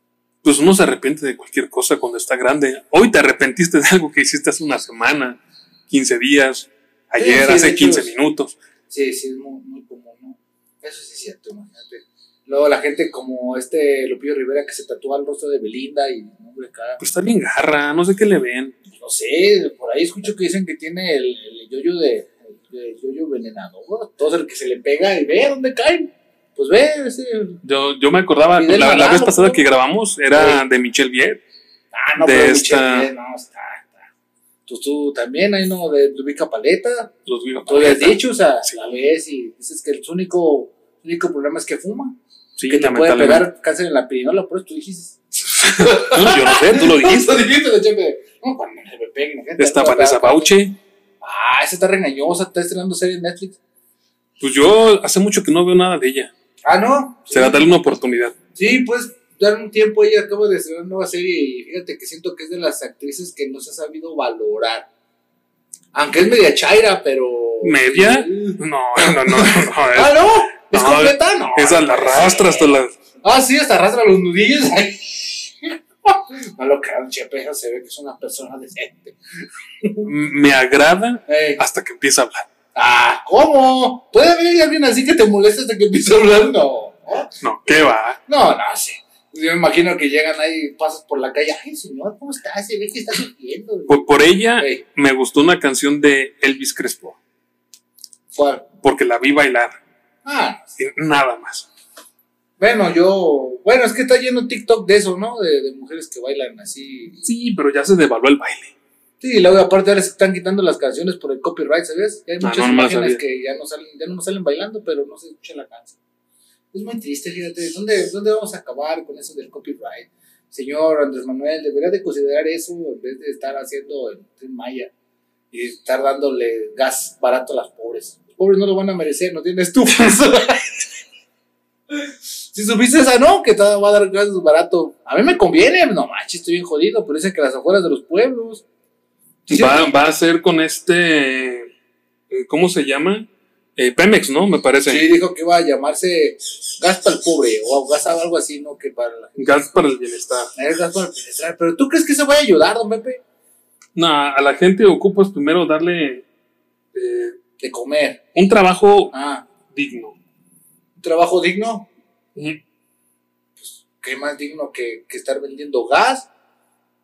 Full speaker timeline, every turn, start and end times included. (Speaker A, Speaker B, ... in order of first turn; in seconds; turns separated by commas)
Speaker A: 0.4-8.5, Speaker B: 7.2-8.1, Speaker B: 8.9-17.0, Speaker A: 17.0-18.7, Speaker B: 18.9-27.6, Speaker A: 27.6-31.4, Speaker B: 28.5-29.6, Speaker B: 30.3-30.6, Speaker B: 31.9-34.0, Speaker A: 32.2-33.1, Speaker B: 34.6-37.1, Speaker A: 37.2-38.8, Speaker B: 37.7-50.5, Speaker A: 42.6-43.5, Speaker A: 45.7-47.5, Speaker A: 49.6-50.8, Speaker B: 51.2-53.6, Speaker A: 54.4-56.3, Speaker B: 56.6-57.6, Speaker A: 57.3-58.4, Speaker B: 58.5-64.9, Speaker B: 65.9-79.2, Speaker A: 67.6-72.9, Speaker B: 79.8-80.1, Speaker A: 80.0-82.5, Speaker B: 81.3-81.6, Speaker B: 82.7-87.3, Speaker A: 87.4-88.2, Speaker B: 88.3-94.8, Speaker A: 93.9-97.2, Speaker B: 98.3-98.7, Speaker A: 98.8-99.8, Speaker B: 100.2-100.7, Speaker A: 100.8-101.7, Speaker B: 102.6-107.2, Speaker A: 107.2-108.7, Speaker B: 109.2-116.0, Speaker A: 112.4-113.2, Speaker B: 116.7-124.9, Speaker B: 125.5-130.7, Speaker B: 132.5-138.6, Speaker B: 139.5-139.9, Speaker A: 139.5-141.7, Speaker A: 142.3-145.1, Speaker B: 144.8-149.4, Speaker A: 149.4-150.5, Speaker B: 150.5-153.2, Speaker A: 153.9-156.2, Speaker A: 156.9-157.3, Speaker B: 157.6-158.2, Speaker A: 158.3-159.1, Speaker B: 159.1-159.5, Speaker A: 159.7-160.2, Speaker B: 161.0-161.9, Speaker A: 162.3-162.6, Speaker B: 163.6-166.3